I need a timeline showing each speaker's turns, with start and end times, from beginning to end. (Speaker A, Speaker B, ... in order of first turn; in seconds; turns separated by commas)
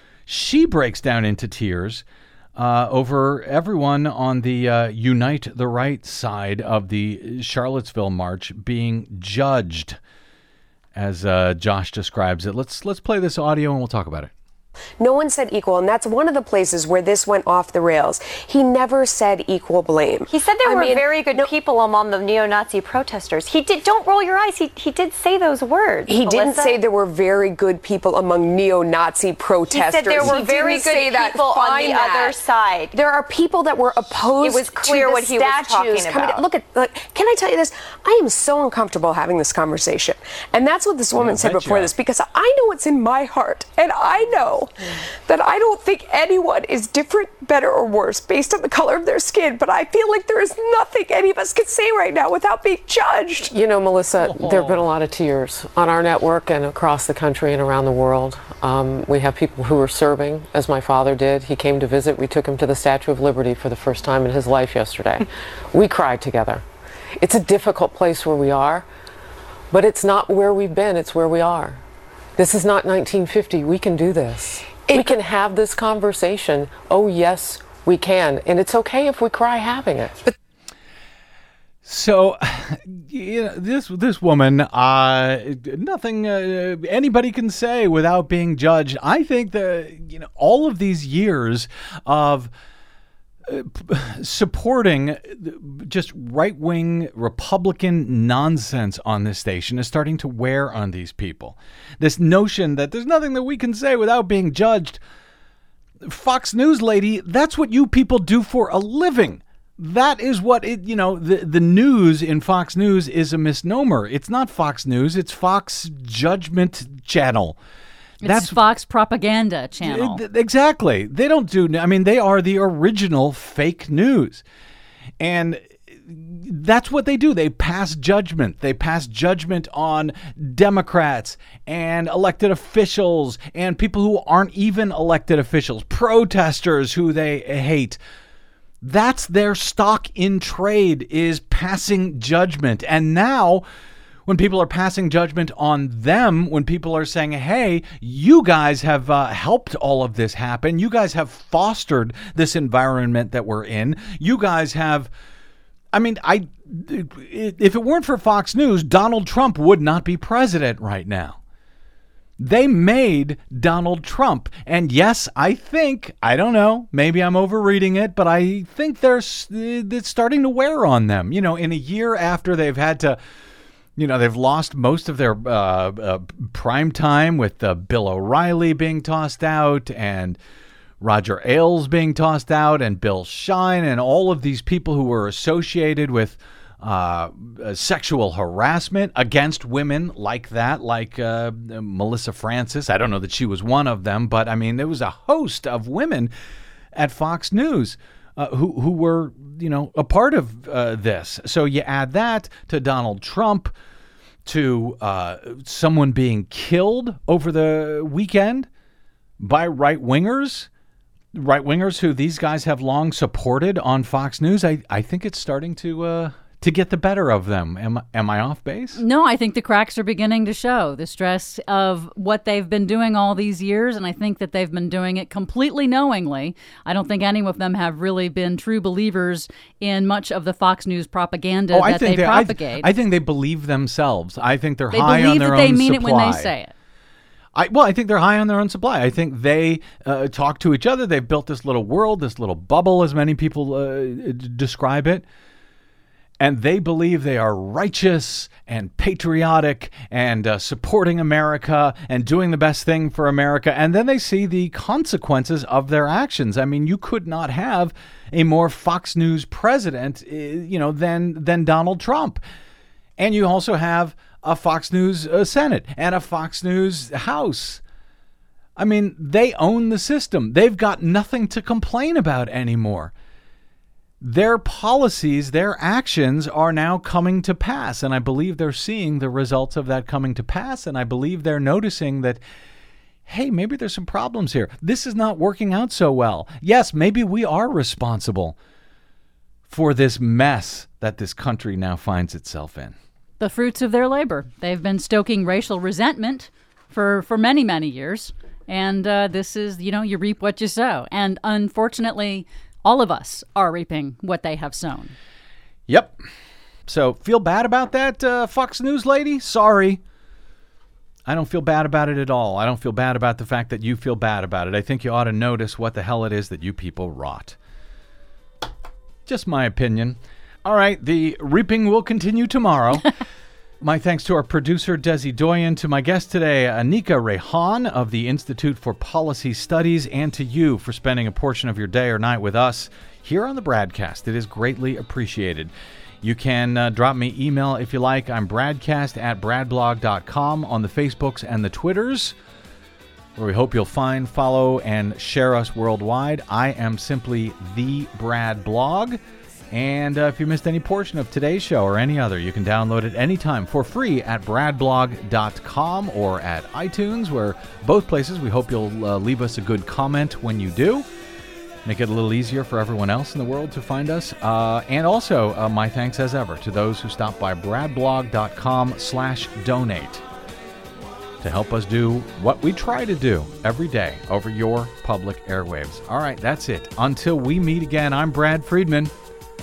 Speaker A: 0.3-2.0, Speaker A: 2.5-10.0, Speaker A: 10.9-14.3, Speaker B: 15.0-21.0, Speaker C: 20.3-26.8, Speaker B: 26.1-32.4, Speaker C: 29.7-33.0, Speaker B: 32.9-53.5, Speaker C: 34.3-36.5, Speaker A: 41.1-41.9, Speaker D: 53.5-66.6, Speaker A: 54.2-54.8, Speaker D: 67.2-68.8, Speaker D: 69.7-71.8, Speaker D: 72.4-80.3, Speaker A: 81.8-92.5, Speaker A: 93.5-105.0, Speaker A: 106.0-117.6, Speaker E: 118.2-120.2, Speaker A: 118.2-118.6, Speaker A: 119.8-124.4, Speaker A: 125.2-138.0, Speaker A: 138.8-143.6, Speaker A: 144.3-155.1, Speaker A: 155.9-161.4, Speaker A: 162.4-173.2, Speaker A: 173.9-180.4, Speaker A: 181.0-196.3, Speaker A: 196.9-203.7, Speaker A: 204.4-208.7, Speaker A: 209.4-210.7, Speaker A: 211.3-219.0, Speaker E: 218.9-232.9, Speaker A: 231.7-236.5, Speaker E: 234.9-236.7, Speaker A: 237.6-245.2, Speaker A: 246.4-262.4, Speaker A: 263.2-267.8, Speaker A: 268.8-273.1, Speaker A: 274.2-282.4, Speaker A: 283.2-288.6, Speaker A: 289.7-292.9, Speaker E: 293.4-305.1, Speaker A: 305.9-306.2, Speaker A: 306.9-310.0, Speaker A: 311.2-317.6, Speaker A: 319.2-323.1, Speaker A: 323.8-335.7, Speaker A: 336.2-342.3, Speaker A: 343.4-349.2, Speaker A: 349.7-361.0, Speaker A: 361.8-370.2, Speaker A: 371.4-379.1